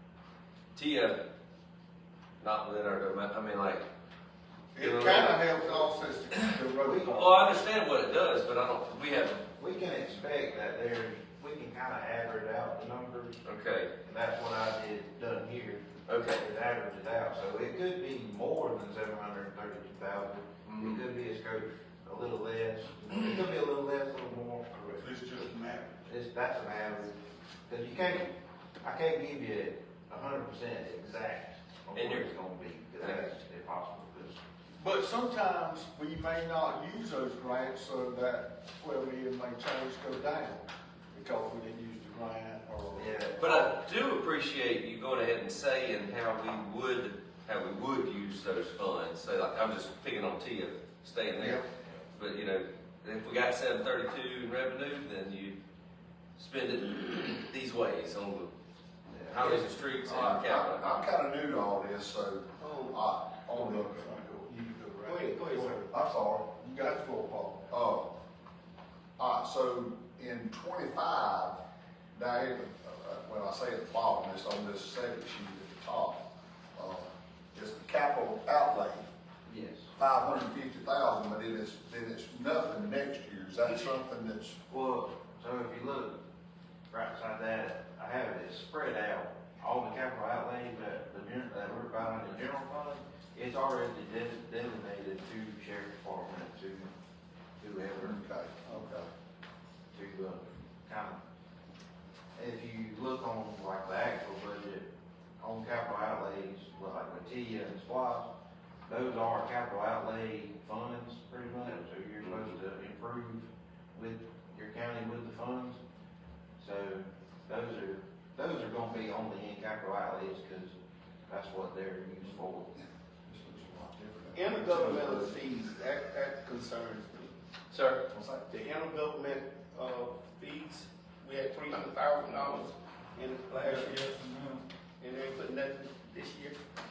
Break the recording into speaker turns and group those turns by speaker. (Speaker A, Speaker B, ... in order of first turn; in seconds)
Speaker A: 0.8-1.2, 2.4-3.9, 4.8-5.4, 7.0-9.5, 13.4-13.9, 16.1-16.5, 20.7-21.0, 31.9-32.3, 33.0-33.3, 43.4-55.6, 56.4-58.5, 59.3-60.9
Speaker B: 4.7-7.6, 25.0-26.0, 34.8-43.3, 63.5-65.8, 66.6-67.7, 133.7-134.6
Speaker C: 6.8-7.2, 9.6-13.4, 14.0-25.0, 26.1-34.4, 42.9-43.7, 59.1-59.4, 79.5-79.9, 84.7-86.2, 86.9-96.9, 97.6-98.2, 99.9-101.2, 102.4-104.9, 105.4-108.3, 108.9-115.8, 116.6-120.8, 121.3-122.7
Speaker D: 59.4-64.2, 65.9-66.5, 67.7-68.1, 69.2-71.6, 72.1-76.2, 76.8-79.1, 80.0-84.6, 98.0-99.1, 123.3-125.3, 128.1-128.4
Speaker E: 62.6-63.0, 65.0-65.9, 124.3-127.3, 128.5-134.2, 135.0-136.6